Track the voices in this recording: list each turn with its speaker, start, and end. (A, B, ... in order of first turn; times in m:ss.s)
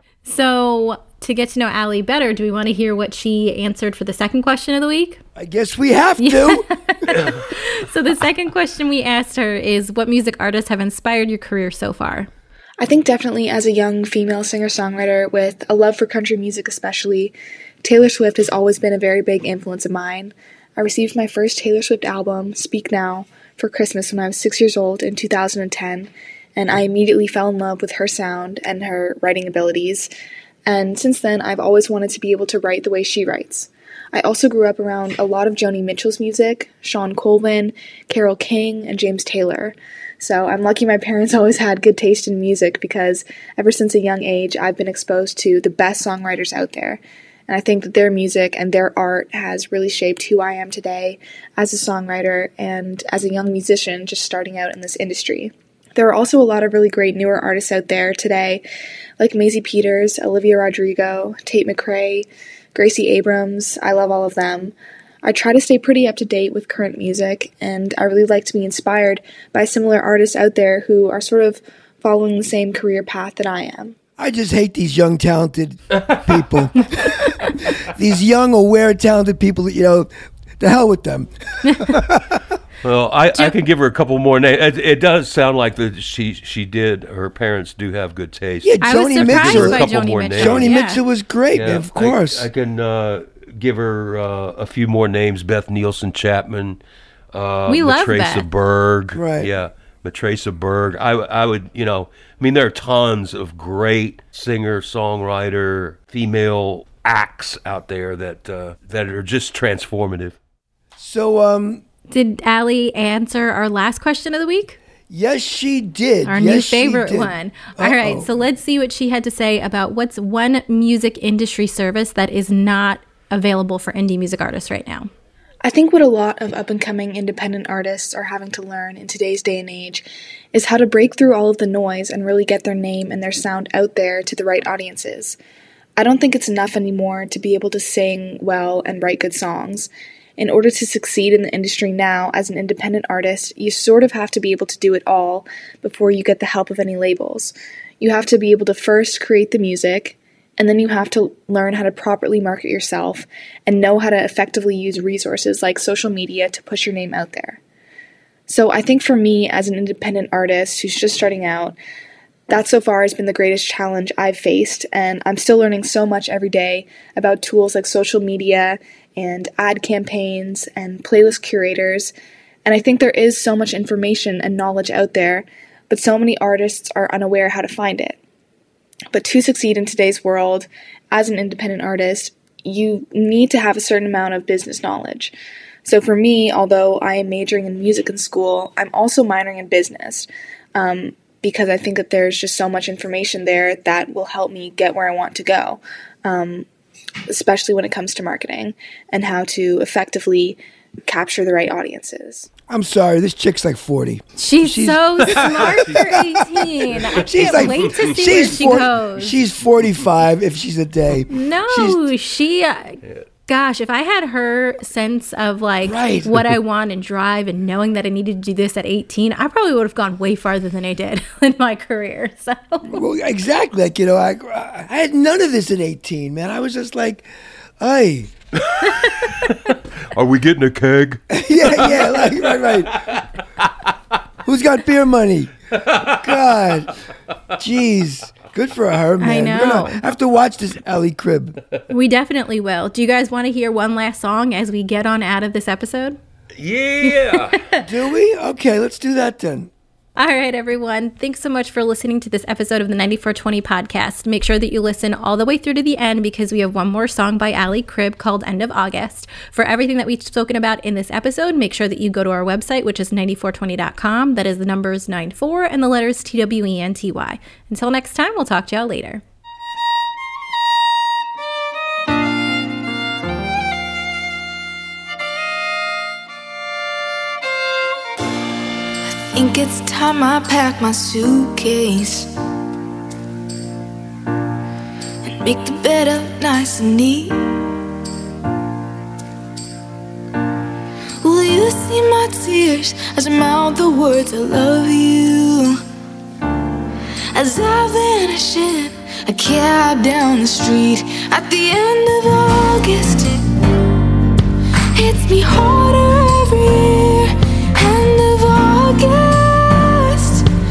0:00.2-0:05.2 A
0:05.4-0:07.2 B
0:06.2-0:12.3 A
0:12.8-0:30.1 C
0:30.6-0:58.6 C
0:59.2-1:14.0 C
1:14.2-1:22.5 B
1:15.9-1:16.2 D
1:21.6-1:22.0 A
1:22.8-1:30.7 D
1:28.6-1:32.5 B
1:28.8-1:31.0 A
1:31.5-1:36.8 D
1:37.3-1:50.4 D
1:37.7-1:38.4 A
1:39.1-1:39.5 B
1:51.0-1:51.8 B
1:52.1-1:54.8 A
1:55.1-1:58.3 B
1:56.2-2:05.1 A
2:05.6-2:15.4 C
2:16.0-2:37.6 C
2:38.5-2:41.7 C
2:42.5-2:52.1 C
2:52.6-2:58.2 C
2:59.1-3:05.3 C
3:05.8-3:16.7 C
3:17.3-3:22.5 C
3:22.7-3:32.1 B
3:24.4-3:29.4 A
3:27.4-3:27.8 D
3:31.3-3:43.0 A
3:35.8-3:36.6 B
3:42.9-3:47.2 B
3:47.8-3:48.3 B
3:48.6-3:53.7 D
3:49.0-3:49.4 A
3:51.3-3:53.0 B
3:54.4-3:56.9 B
3:55.8-3:56.2 D
3:57.6-4:01.6 B
3:59.2-4:00.0 A
4:01.9-4:06.2 A
4:06.6-4:07.6 D
4:07.0-4:07.8 A
4:07.8-4:09.7 B
4:10.2-4:29.2 A
4:39.3-4:42.3 E
4:45.2-4:47.6 E
4:51.2-4:55.8 E
4:57.3-5:03.4 E
5:04.9-5:10.5 E